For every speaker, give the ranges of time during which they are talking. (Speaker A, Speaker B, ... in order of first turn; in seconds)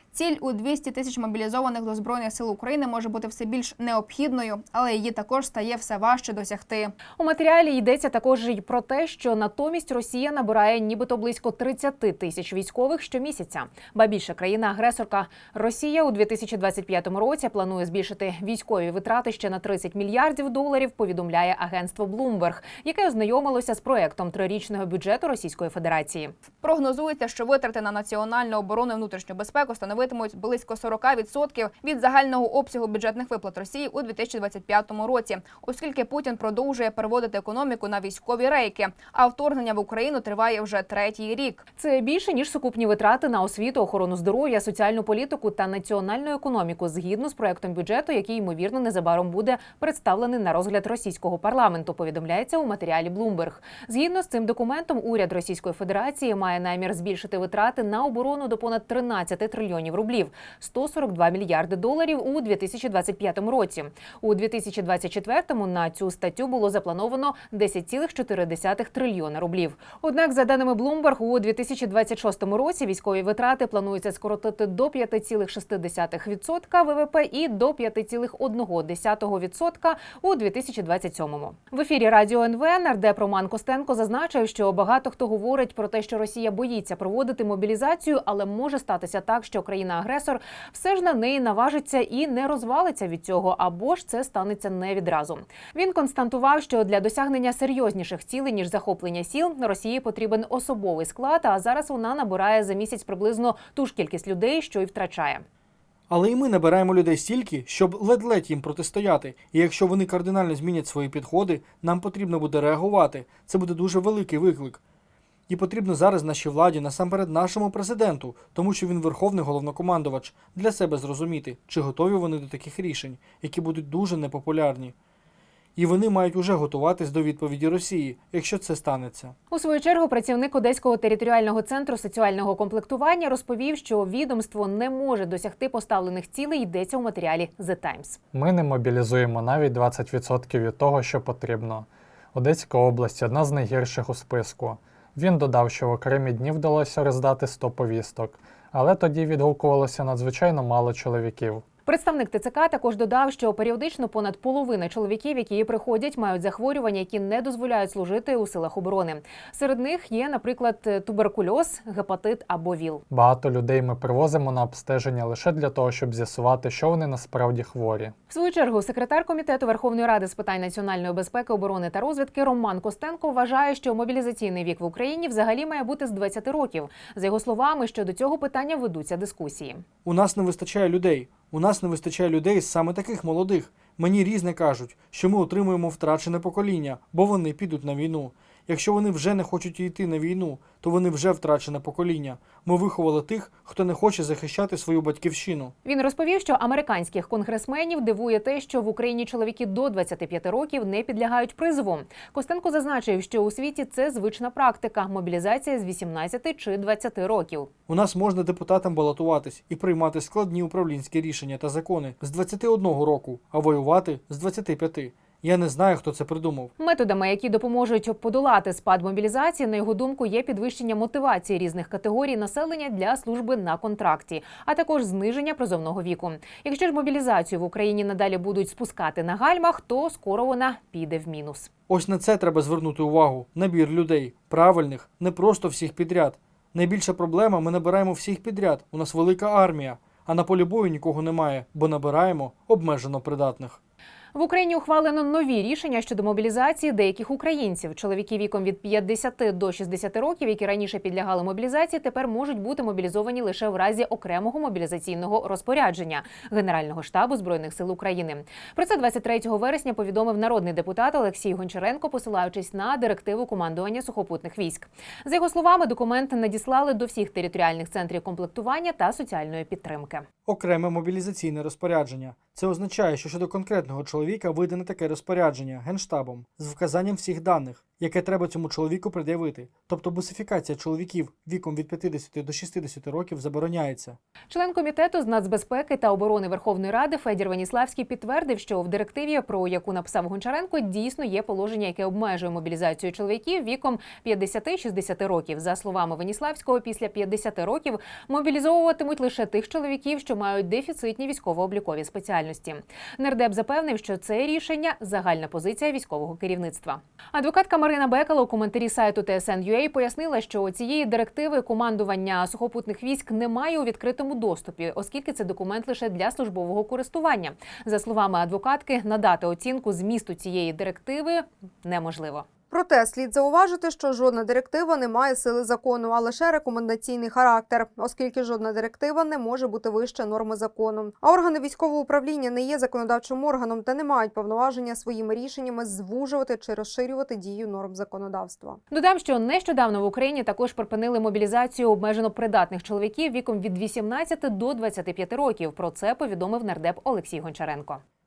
Speaker A: 0.1-6.9, 26.6-41.6
Speaker B: 7.2-26.3, 41.8-105.4, 129.5-138.2, 151.8-163.0, 168.3-179.8, 195.8-207.7, 216.8-231.7, 244.3-270.2, 284.5-322.4, 338.9-348.0
Speaker C: 106.1-114.8, 115.5-124.9, 125.8-129.3, 180.0-195.7, 207.9-216.7, 231.9-243.8, 270.4-284.2
Speaker D: 138.3-151.7, 163.1-168.1
Speaker E: 322.7-338.8